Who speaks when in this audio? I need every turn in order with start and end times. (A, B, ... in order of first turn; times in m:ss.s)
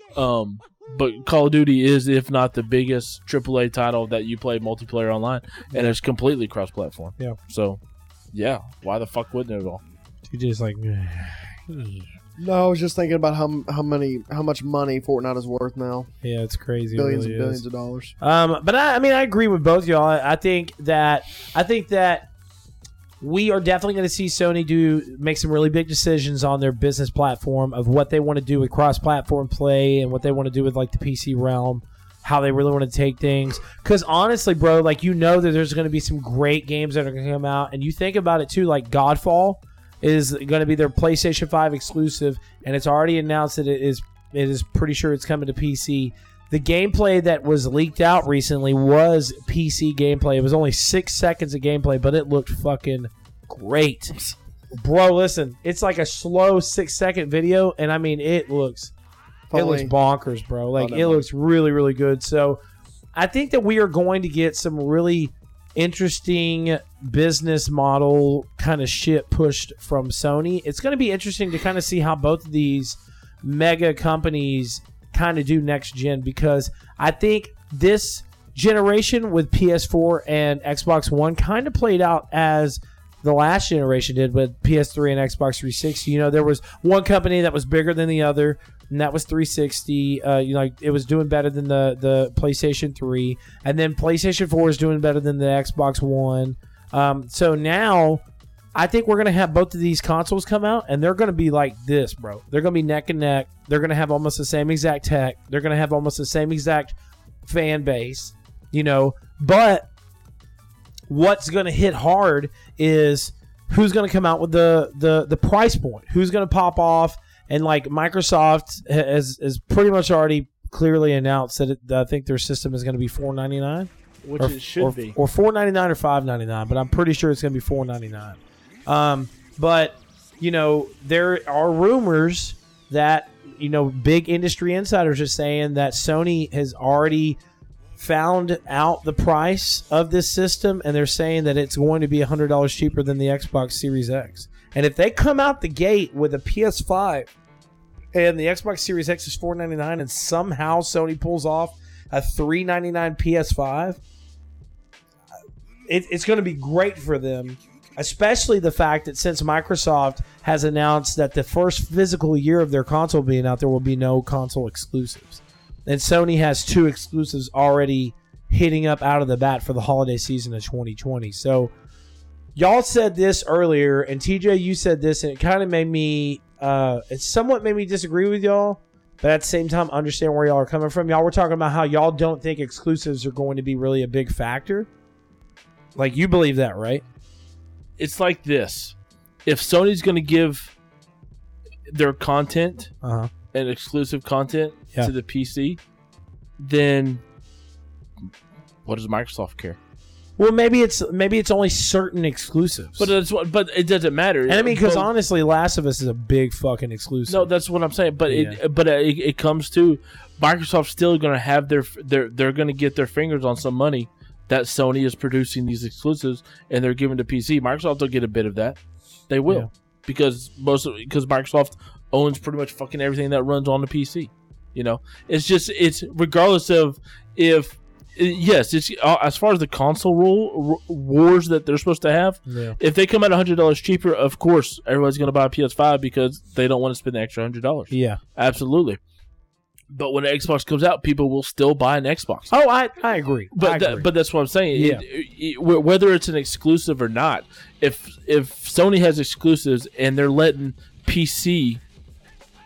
0:00.1-0:07.8 A
0:08.3-0:09.8 A
0:10.3-0:12.1 B
0:12.4-0:16.1 C
0:16.2-0:17.6 B
0:16.9-0:18.1 C
0:18.2-0:22.3 B
0:23.2-0:54.2 B
0:54.7-0:58.9 B
0:59.5-0:59.9 C
0:59.5-1:02.6 B
1:00.8-1:01.2 C
1:03.1-1:38.2 B
1:38.7-1:49.9 B
1:51.1-2:17.4 B
2:04.2-2:05.2 A
2:18.0-2:27.3 B
2:28.1-2:34.0 B
2:35.9-2:51.7 B
2:52.6-3:04.9 B
3:06.0-3:07.0 B
3:08.0-3:08.9 A
3:09.4-3:10.7 A
3:11.9-3:12.9 A
3:13.0-3:13.3 B
3:13.5-3:15.8 A
3:16.6-3:17.2 A
3:18.8-3:19.8 A
3:20.4-3:23.1 B
3:23.0-3:25.1 A
3:24.5-3:27.5 B
3:27.3-3:38.8 A
3:28.3-3:28.6 B
3:39.3-3:59.0 A
3:52.5-3:52.8 B
3:57.9-3:58.2 B
3:59.9-4:02.5 A
4:02.5-4:04.1 B
4:03.5-4:11.8 A
4:04.7-4:05.0 B